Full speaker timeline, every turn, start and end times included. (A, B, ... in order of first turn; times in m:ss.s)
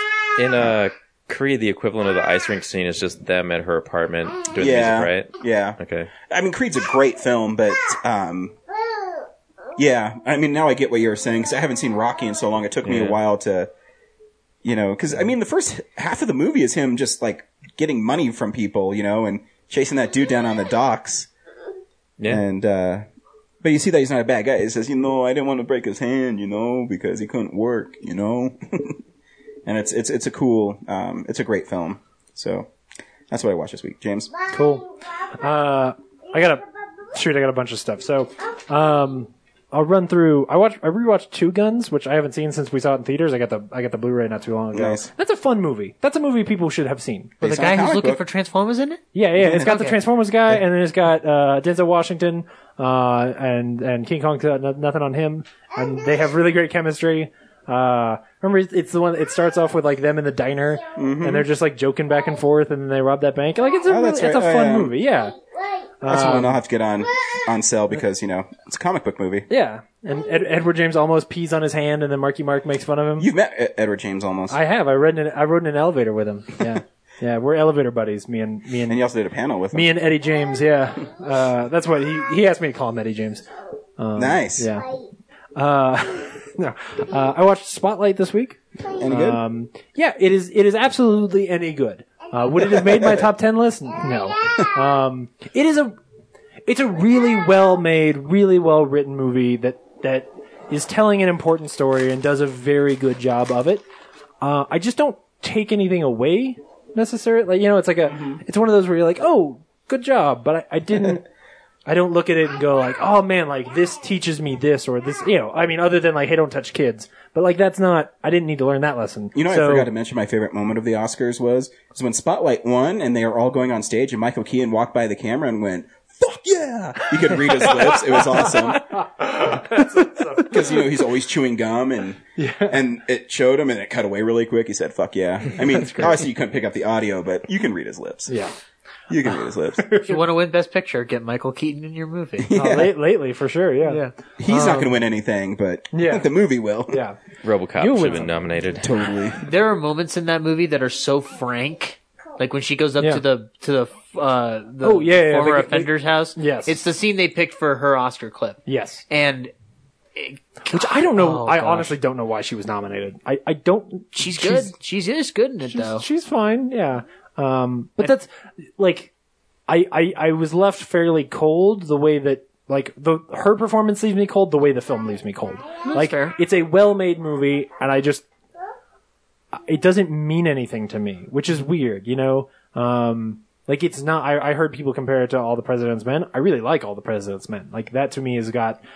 0:00.4-0:06.1 A
0:04.5-0:08.6 B
0:09.8-0:13.7 B
0:12.8-0:13.2 A
0:14.6-0:21.3 B
0:22.3-0:23.0 B
0:23.6-0:29.0 B
0:29.6-0:32.7 B
0:33.3-0:34.3 B
0:34.5-0:47.4 C
0:44.7-0:45.1 B
0:47.4-0:48.2 B
0:47.4-0:50.0 D
0:49.1-1:05.3 C
0:49.4-0:49.7 B
1:01.0-1:01.5 B
1:03.8-1:04.9 B
1:06.0-1:06.6 C
1:06.0-1:09.5 B
1:09.5-1:13.3 C
1:13.2-1:14.6 B
1:14.5-1:19.0 C
1:18.8-1:19.9 B
1:19.7-1:24.9 C
1:24.1-1:24.7 B
1:25.5-1:36.0 C
1:29.0-1:29.4 B
1:32.6-1:33.2 B
1:36.6-1:43.8 C
1:44.4-1:51.2 C
1:48.1-1:48.4 B
1:51.8-1:59.9 C
1:59.3-2:09.0 B
2:07.0-2:10.8 C
2:10.4-2:18.3 B
2:12.4-2:12.8 C
2:15.6-2:16.2 C
2:19.1-2:20.0 B
2:19.8-2:20.2 C
2:20.0-2:22.5 D
2:22.4-2:22.9 B
2:22.5-2:24.9 C
2:23.9-2:24.1 D
2:24.4-2:27.0 B
2:25.9-2:26.3 C
2:26.9-2:27.2 C
2:27.4-2:28.9 A
2:27.8-2:28.4 C
2:28.8-2:29.4 B
2:29.4-2:39.5 D
2:34.8-2:36.8 C
2:38.6-2:39.0 C
2:40.2-2:41.9 D
2:40.7-2:44.7 C
2:44.2-2:46.0 D
2:45.7-2:49.1 C
2:49.7-2:58.2 C
2:55.8-2:56.3 D
2:59.5-3:08.8 C